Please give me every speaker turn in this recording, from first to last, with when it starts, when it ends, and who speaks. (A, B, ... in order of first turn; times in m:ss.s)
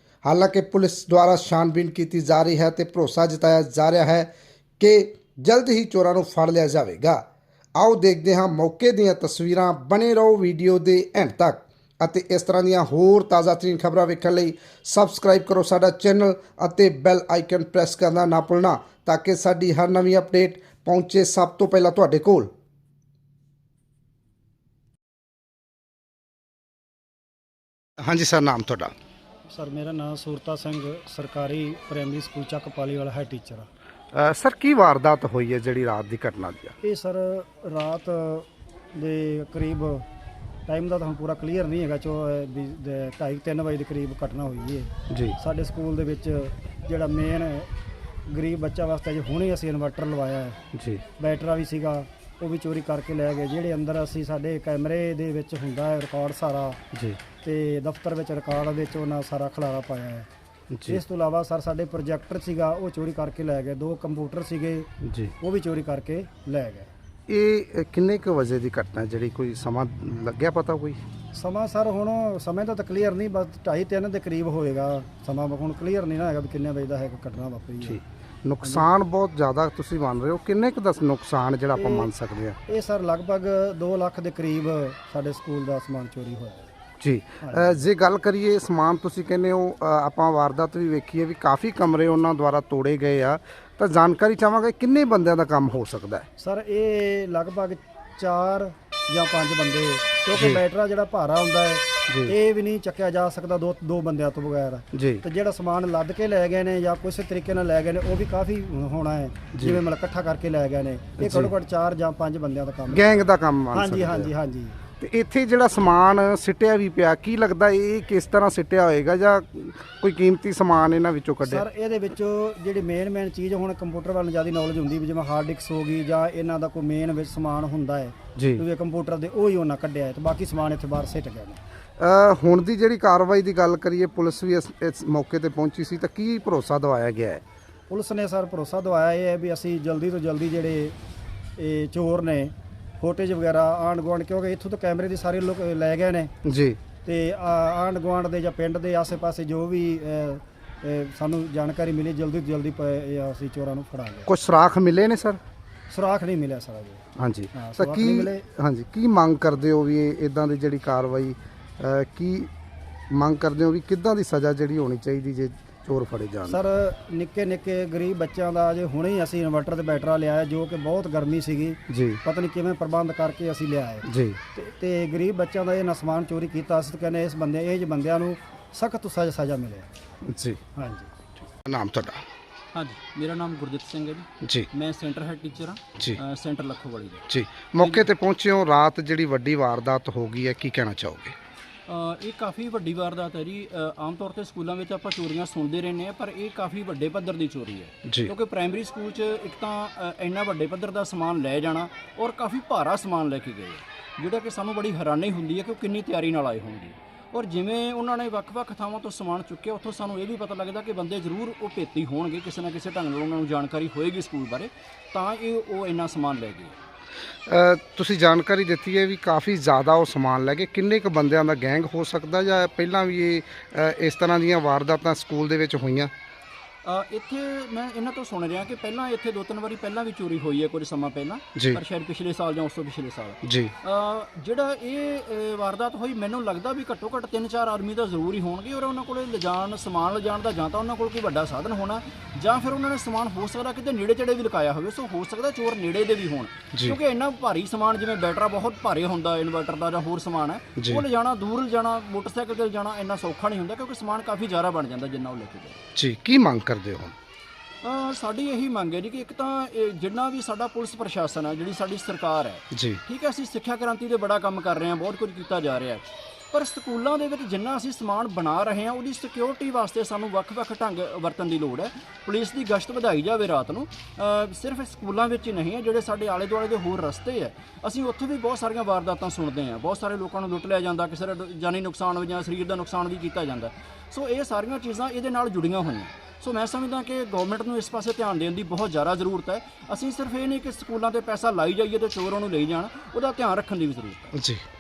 0:00.2-0:07.2 A
0:07.8-0:22.5 A
0:28.0-0:28.9 A
0:29.5-0:33.7 B
0:34.1-0:36.8 A
0:36.8-0:40.0 B
0:40.7-0:47.7 B
0:45.1-0:45.4 A
0:48.3-0:50.6 B
0:50.7-0:51.0 A
0:51.2-0:56.8 B
0:56.9-0:57.2 A
0:57.4-1:00.3 B
1:00.7-1:01.0 A
1:00.9-1:04.9 B
1:05.0-1:05.3 A
1:05.4-1:06.9 B
1:07.3-1:11.0 A
1:11.3-1:18.0 B
1:17.8-1:22.6 A
1:21.8-1:22.1 B
1:22.6-1:26.7 B
1:27.0-1:36.3 A
1:27.4-1:27.8 B
1:36.4-1:54.8 B
1:42.1-1:42.3 A
1:44.9-1:45.2 A
1:49.5-1:49.8 A
1:51.2-1:51.5 A
1:52.9-1:54.3 A
1:55.0-2:01.6 A
2:01.4-2:11.6 B
2:08.4-2:08.6 A
2:12.0-2:17.4 A
2:17.9-2:21.0 B
2:21.6-2:26.3 B
2:26.4-2:26.8 A
2:27.0-2:34.3 B
2:34.3-2:35.4 A
2:35.9-2:37.0 B
2:37.2-2:42.5 A
2:37.6-2:38.4 B
2:43.1-2:46.6 A
2:46.5-2:59.9 B
2:51.9-2:52.2 A
2:54.1-2:54.4 A
3:00.3-3:00.6 A
3:00.8-3:01.1 B
3:01.6-3:02.2 A
3:02.7-3:07.2 C
3:04.4-3:04.7 A
3:07.3-3:11.4 A
3:07.8-3:08.1 C
3:11.9-3:36.8 C
3:18.1-3:18.3 A
3:37.5-3:46.1 A
3:46.8-4:15.8 C
3:53.4-3:53.7 A
4:10.8-4:11.0 A
4:16.0-4:17.2 A
4:17.8-4:54.3 C
4:22.7-4:23.0 A
4:54.3-4:54.6 A